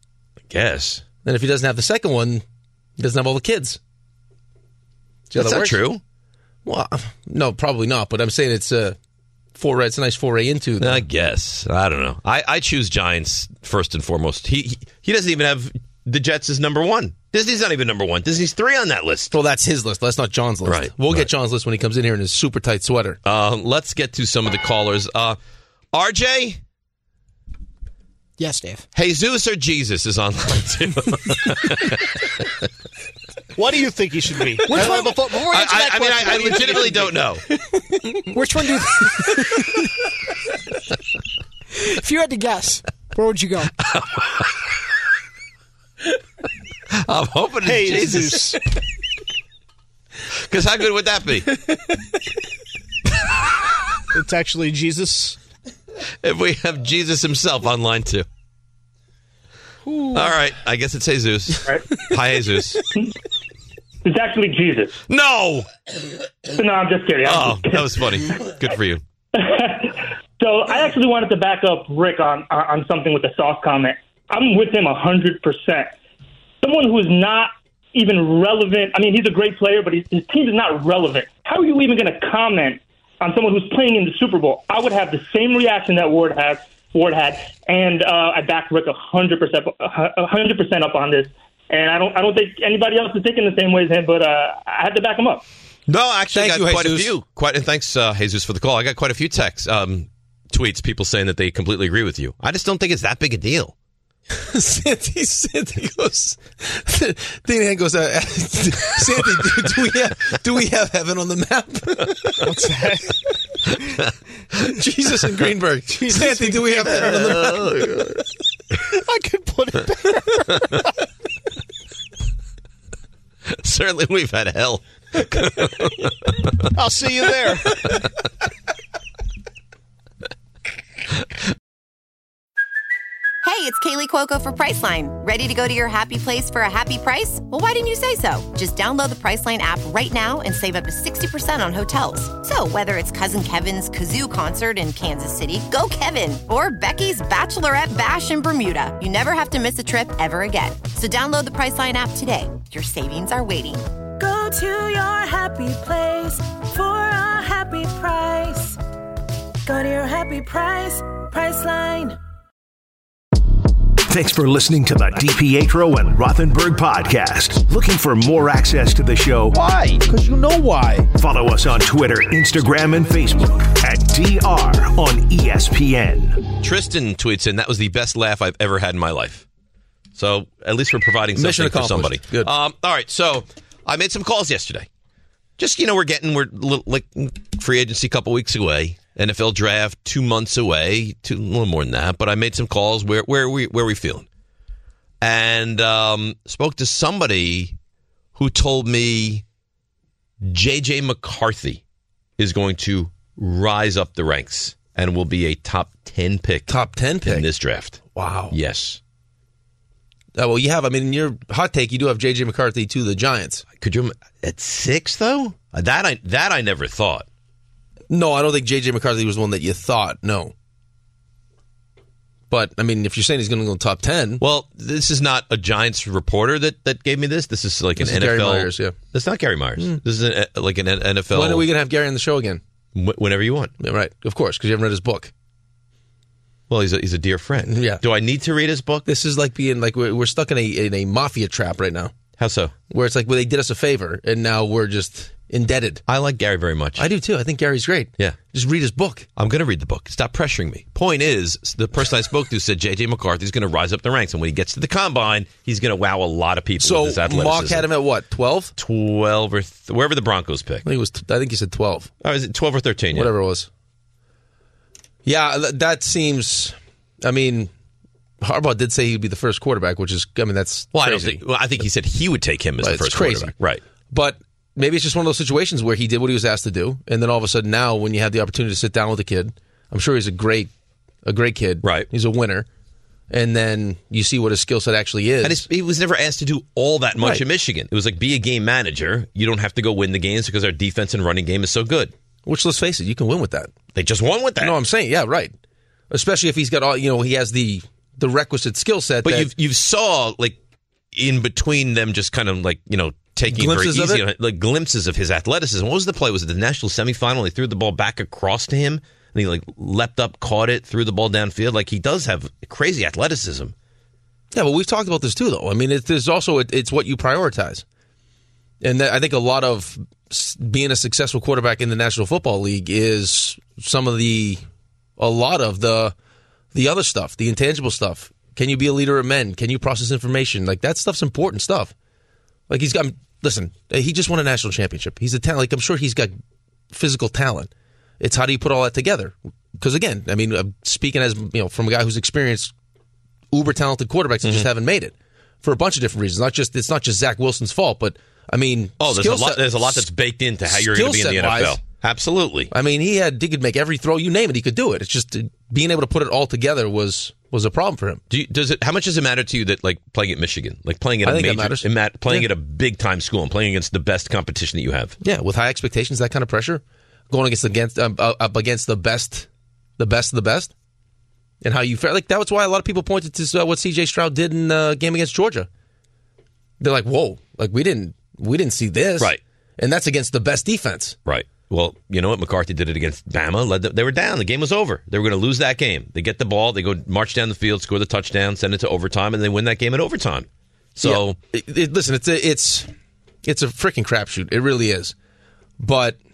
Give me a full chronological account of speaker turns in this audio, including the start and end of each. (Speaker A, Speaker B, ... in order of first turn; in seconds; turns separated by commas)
Speaker A: 0.5-1.0, Speaker B: 1.2-2.4, Speaker B: 3.0-3.8, Speaker B: 5.3-5.8, Speaker A: 5.3-6.0, Speaker B: 6.6-8.9, Speaker B: 9.6-11.0, Speaker A: 10.8-19.3, Speaker B: 19.3-23.2, Speaker A: 20.6-21.3, Speaker A: 23.2-25.4, Speaker A: 25.9-26.6, Speaker C: 28.4-28.8, Speaker A: 28.9-32.2, Speaker D: 33.5-37.1, Speaker A: 34.7-37.4, Speaker C: 34.7-35.0, Speaker C: 38.3-39.7, Speaker C: 41.8-43.7, Speaker A: 43.9-44.2, Speaker A: 47.0-48.6, Speaker D: 47.6-48.6, Speaker A: 50.5-51.6, Speaker D: 54.1-55.4, Speaker A: 56.2-58.2, Speaker A: 60.1-62.8, Speaker E: 64.0-65.0, Speaker A: 65.1-65.7, Speaker E: 66.5-67.9, Speaker A: 67.2-69.0, Speaker E: 69.3-75.9, Speaker E: 76.6-95.4, Speaker A: 95.9-103.7, Speaker B: 96.3-97.1, Speaker B: 104.3-112.4, Speaker D: 112.4-113.2, Speaker B: 114.6-117.7, Speaker D: 115.9-117.7, Speaker A: 116.8-118.2, Speaker D: 118.8-120.8, Speaker A: 123.5-126.1, Speaker D: 126.7-127.9, Speaker F: 133.4-153.9, Speaker G: 154.2-158.8, Speaker G: 159.6-162.2, Speaker H: 164.1-169.6, Speaker A: 169.5-170.0, Speaker H: 171.1-176.4, Speaker A: 176.6-179.4, Speaker A: 180.2-184.9, Speaker B: 181.3-182.5, Speaker A: 185.6-194.2, Speaker A: 195.2-197.8, Speaker A: 198.3-199.4, Speaker A: 200.4-201.8, Speaker A: 202.4-206.7, Speaker B: 206.7-207.4, Speaker A: 207.2-209.0, Speaker B: 208.1-208.5, Speaker B: 210.3-213.6, Speaker A: 213.8-217.2, Speaker B: 218.1-220.5, Speaker B: 222.5-224.4, Speaker A: 224.4-231.7, Speaker B: 228.0-229.0, Speaker B: 231.3-232.6, Speaker A: 232.9-233.7, Speaker B: 233.8-235.3, Speaker A: 236.7-239.1, Speaker B: 237.7-238.0, Speaker B: 239.0-242.1, Speaker A: 242.4-242.7, Speaker B: 242.9-246.0, Speaker A: 246.1-247.1, Speaker B: 247.0-249.3, Speaker A: 249.4-257.9, Speaker B: 256.8-258.7, Speaker A: 258.8-260.9, Speaker B: 260.8-262.1, Speaker A: 262.2-263.3, Speaker B: 263.1-263.7, Speaker B: 265.2-267.7, Speaker B: 268.4-271.4, Speaker A: 270.9-273.8, Speaker B: 272.8-273.5, Speaker B: 274.1-280.7, Speaker B: 281.2-282.7, Speaker A: 281.8-282.1, Speaker B: 283.3-285.6, Speaker A: 285.4-292.1, Speaker B: 287.2-287.4, Speaker B: 292.4-293.7, Speaker A: 293.9-294.8, Speaker B: 294.6-295.5, Speaker B: 296.1-299.5, Speaker A: 299.2-300.6, Speaker A: 301.1-313.7, Speaker B: 303.5-304.2, Speaker B: 314.5-317.8, Speaker B: 318.8-324.6, Speaker B: 325.2-326.1, Speaker B: 326.7-331.9, Speaker B: 332.7-336.3, Speaker B: 336.9-337.7, Speaker B: 338.2-342.7, Speaker B: 343.5-350.1, Speaker A: 344.4-344.7, Speaker A: 349.0-352.7, Speaker B: 350.7-351.8, Speaker B: 352.7-358.2, Speaker A: 358.3-365.2, Speaker B: 361.2-362.5, Speaker B: 365.2-369.5, Speaker B: 370.0-370.7, Speaker B: 371.6-375.7, Speaker B: 376.8-381.1, Speaker A: 381.2-391.4, Speaker B: 391.0-392.9, Speaker B: 393.4-395.1, Speaker B: 395.8-396.2